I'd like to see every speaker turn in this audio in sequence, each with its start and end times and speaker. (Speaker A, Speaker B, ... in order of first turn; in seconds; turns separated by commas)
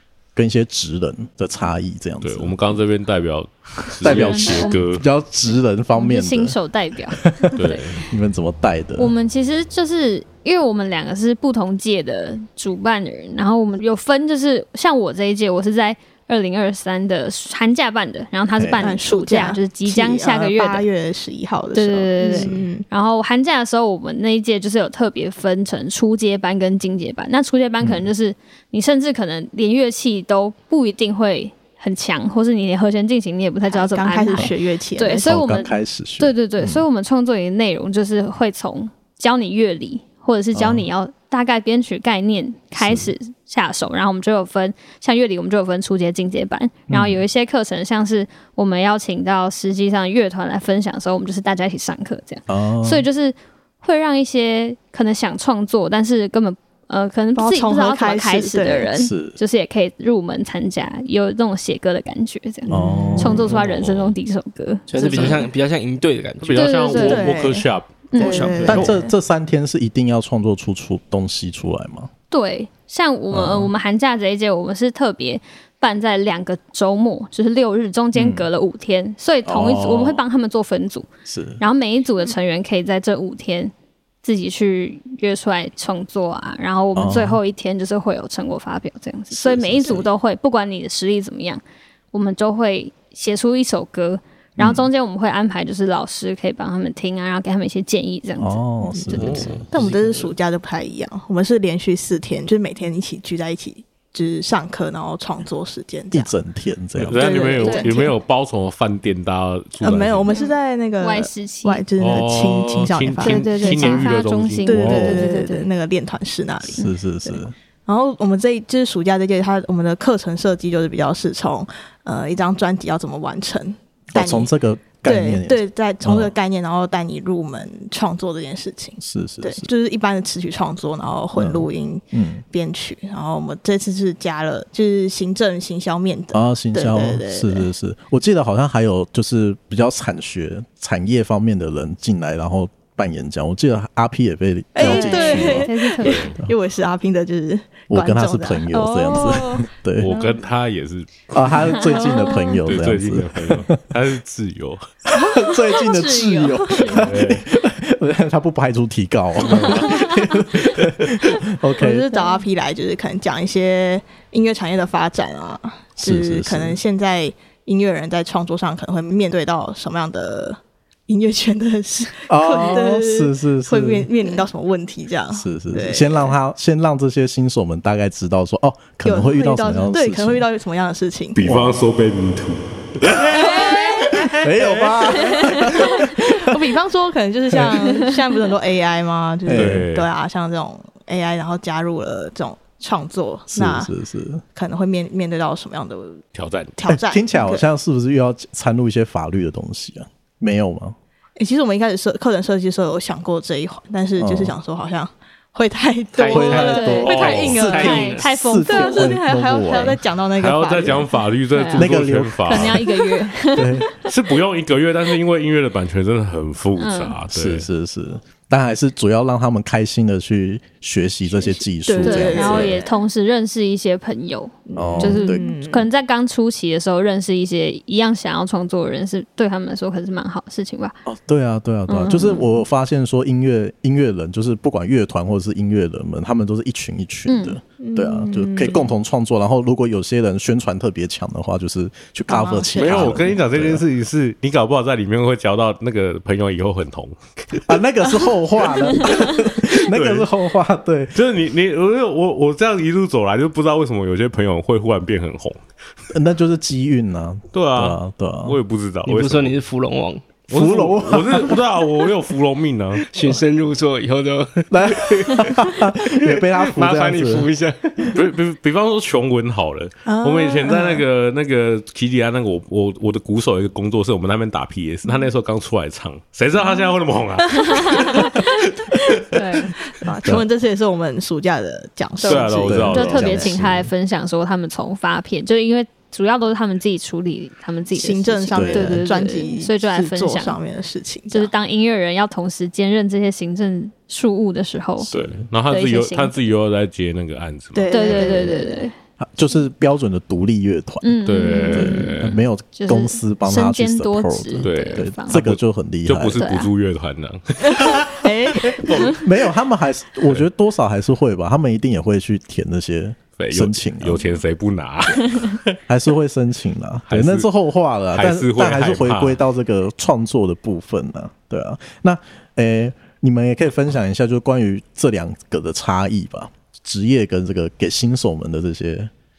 Speaker A: 0.3-2.7, Speaker B: 2.2-5.0, Speaker A: 4.0-6.6, Speaker C: 4.0-4.8, Speaker C: 5.9-7.8, Speaker A: 7.2-9.1, Speaker B: 7.5-8.0, Speaker C: 9.0-20.8, Speaker A: 18.6-18.8, Speaker D: 18.8-22.9, Speaker C: 21.7-65.5, Speaker A: 22.3-22.6, Speaker A: 27.8-28.1, Speaker D: 33.6-35.3, Speaker A: 35.2-36.8, Speaker A: 40.5-40.9, Speaker A: 42.8-43.1, Speaker A: 46.9-47.2, Speaker A: 52.5-53.1, Speaker D: 57.4-58.9, Speaker A: 58.9-59.4, Speaker D: 62.6-63.4, Speaker A: 62.7-63.5, Speaker B: 63.4-64.1, Speaker E: 64.9-67.4, Speaker D: 65.1-65.4, Speaker B: 66.4-68.3, Speaker C: 66.5-67.3, Speaker D: 67.0-69.1, Speaker C: 68.1-68.9, Speaker E: 68.2-69.0, Speaker A: 68.7-72.1, Speaker C: 72.3-81.1, Speaker A: 73.3-73.7, Speaker A: 78.1-78.5, Speaker A: 79.4-80.2, Speaker A: 81.2-81.6, Speaker C: 81.6-98.6, Speaker A: 86.9-87.4, Speaker A: 89.3-90.1, Speaker A: 94.6-94.9, Speaker A: 98.4-99.6, Speaker D: 98.9-106.3, Speaker B: 99.1-99.6, Speaker E: 99.2-100.3, Speaker A: 106.1-107.5, Speaker B: 107.0-110.3, Speaker D: 107.1-108.1, Speaker C: 107.6-108.0, Speaker D: 109.8-114.1, Speaker C: 110.3-111.8, Speaker B: 112.0-115.0, Speaker C: 113.2-115.7, Speaker D: 114.6-124.5, Speaker A: 114.8-115.2, Speaker A: 116.6-117.5, Speaker A: 124.1-126.3, Speaker D: 125.0-137.7, Speaker A: 129.0-129.7, Speaker A: 131.3-132.4, Speaker A: 136.3-145.7, Speaker D: 144.7-149.7, Speaker C: 144.8-146.3, Speaker B: 146.0-146.3, Speaker A: 147.9-150.1, Speaker B: 150.0-151.9, Speaker A: 151.3-153.8, Speaker C: 152.0-152.5, Speaker D: 152.0-152.4, Speaker B: 152.6-154.8, Speaker A: 155.3-162.1, Speaker D: 155.4-156.5, Speaker C: 155.8-157.1, Speaker B: 156.9-157.4, Speaker B: 159.4-159.9, Speaker D: 161.8-176.3, Speaker C: 162.1-162.4, Speaker A: 166.0-166.8, Speaker A: 172.3-174.3, Speaker A: 175.3-180.4, Speaker D: 179.0-181.4, Speaker B: 181.3-185.0, Speaker A: 181.4-181.8, Speaker D: 183.3-184.3, Speaker A: 184.4-186.6, Speaker D: 184.8-193.9, Speaker A: 189.4-189.8, Speaker B: 189.5-190.1, Speaker A: 193.5-194.4, Speaker D: 194.5-196.2, Speaker B: 196.3-196.8, Speaker D: 196.8-197.6, Speaker A: 196.9-200.9, Speaker D: 201.4-211.1, Speaker A: 204.2-204.5, Speaker E: 206.2-208.2, Speaker A: 206.3-210.0, Speaker C: 206.5-209.1, Speaker B: 207.0-207.7, Speaker B: 210.4-212.8, Speaker C: 211.5-211.9, Speaker A: 211.7-212.8, Speaker C: 212.5-214.1, Speaker A: 213.5-213.8, Speaker B: 214.0-217.7, Speaker C: 216.8-217.2, Speaker A: 217.3-222.8, Speaker D: 221.3-222.9, Speaker C: 222.0-231.0, Speaker D: 224.7-225.9, Speaker A: 224.8-225.4, Speaker A: 231.1-243.8, Speaker C: 231.9-232.4, Speaker C: 237.3-237.6, Speaker D: 237.8-238.9, Speaker D: 242.3-243.3, Speaker B: 242.8-247.6, Speaker A: 247.7-251.2, Speaker B: 249.7-250.3, Speaker B: 251.1-255.6, Speaker A: 256.1-258.6, Speaker B: 257.5-259.6, Speaker E: 259.0-260.5, Speaker B: 260.5-263.1, Speaker A: 260.5-261.6, Speaker E: 263.0-268.2, Speaker A: 264.7-267.5, Speaker B: 268.1-279.2, Speaker D: 270.1-271.0, Speaker D: 276.6-276.9, Speaker C: 277.6-278.5, Speaker C: 279.3-279.7, Speaker D: 279.9-283.5, Speaker C: 282.2-290.6, Speaker B: 282.2-283.4, Speaker A: 282.6-283.9, Speaker D: 287.9-291.5, Speaker A: 288.5-289.0, Speaker C: 291.3-295.1, Speaker A: 295.0-295.5, Speaker B: 295.1-298.2, Speaker C: 295.7-296.5, Speaker D: 297.7-298.9, Speaker C: 297.9-298.9, Speaker A: 299.2-301.2, Speaker C: 301.0-305.4, Speaker B: 301.2-302.4, Speaker A: 301.7-306.4, Speaker B: 304.6-309.2, Speaker C: 306.4-306.7, Speaker D: 307.6-309.2, Speaker A: 309.0-314.2, Speaker B: 313.4-315.8, Speaker A: 315.9-329.1, Speaker B: 317.1-317.5, Speaker B: 318.1-319.4